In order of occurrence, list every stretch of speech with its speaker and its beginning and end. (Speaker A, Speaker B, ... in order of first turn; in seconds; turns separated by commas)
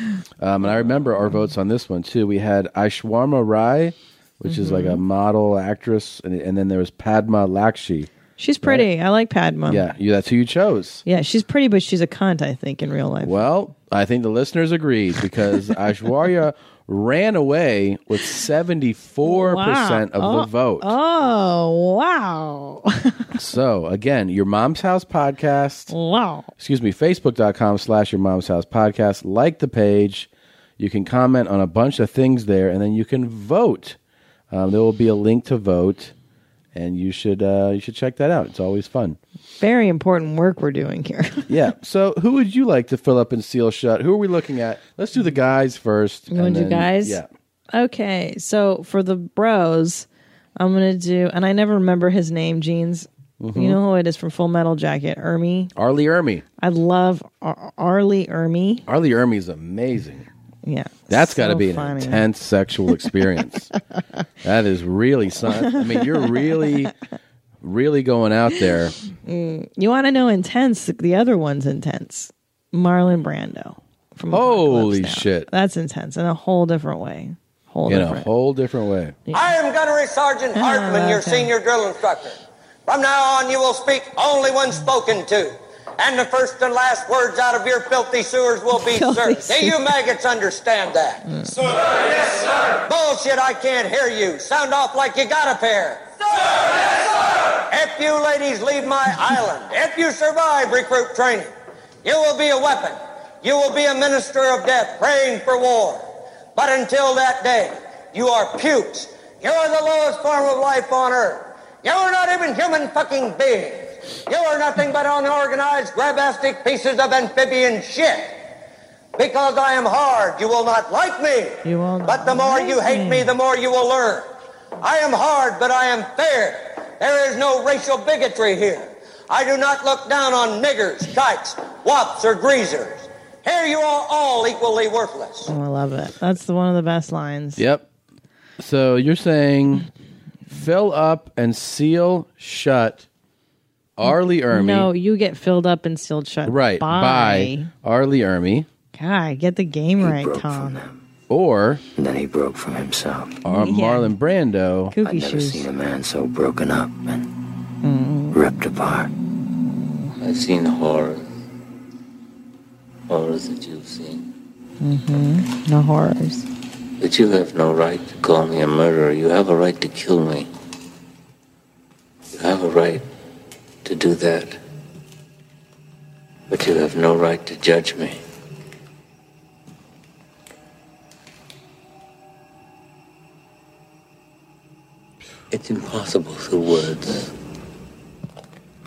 Speaker A: 0.4-8.1, Speaker B: 4.4-5.0, Speaker B: 8.4-9.9, Speaker A: 8.6-8.9, Speaker A: 9.7-11.0, Speaker B: 11.1-13.4, Speaker A: 13.2-20.9, Speaker B: 19.2-23.2, Speaker A: 23.4-25.9, Speaker B: 25.9-26.5, Speaker A: 26.6-34.0, Speaker A: 34.5-36.1, Speaker A: 36.7-39.2, Speaker B: 39.6-41.6, Speaker A: 41.5-47.3, Speaker B: 46.3-47.2, Speaker B: 47.7-50.1, Speaker B: 50.6-55.7, Speaker A: 53.4-53.8, Speaker A: 55.8-56.5, Speaker B: 56.6-58.9, Speaker A: 58.9-60.3, Speaker B: 60.6-62.3, Speaker A: 61.1-63.7, Speaker A: 64.4-66.9, Speaker B: 65.5-66.9, Speaker A: 67.6-69.0, Speaker B: 69.2-78.3, Speaker A: 74.3-75.5, Speaker A: 77.9-79.2, Speaker C: 79.3-91.2, Speaker B: 80.6-81.5, Speaker B: 88.7-89.9, Speaker B: 91.2-91.7, Speaker C: 92.8-96.1, Speaker C: 97.7-101.5, Speaker C: 102.0-118.4, Speaker C: 119.2-124.3, Speaker B: 121.6-123.3, Speaker C: 124.8-135.5, Speaker B: 135.5-137.6, Speaker A: 137.6-137.9, Speaker A: 138.6-139.9, Speaker A: 140.5-143.1, Speaker A: 144.0-144.9, Speaker B: 144.0-147.7, Speaker A: 146.4-148.7, Speaker B: 148.9-150.8, Speaker D: 150.0-151.0, Speaker A: 151.3-151.8, Speaker D: 152.0-153.4, Speaker A: 153.4-155.0, Speaker B: 153.5-154.1, Speaker B: 154.9-155.7, Speaker D: 155.0-157.3, Speaker B: 157.8-158.4, Speaker D: 158.3-159.1, Speaker E: 160.2-161.3, Speaker E: 163.1-164.3, Speaker B: 164.8-166.5, Speaker E: 167.0-170.5, Speaker E: 172.3-173.1, Speaker E: 173.8-174.6, Speaker E: 176.5-178.2, Speaker E: 185.5-187.3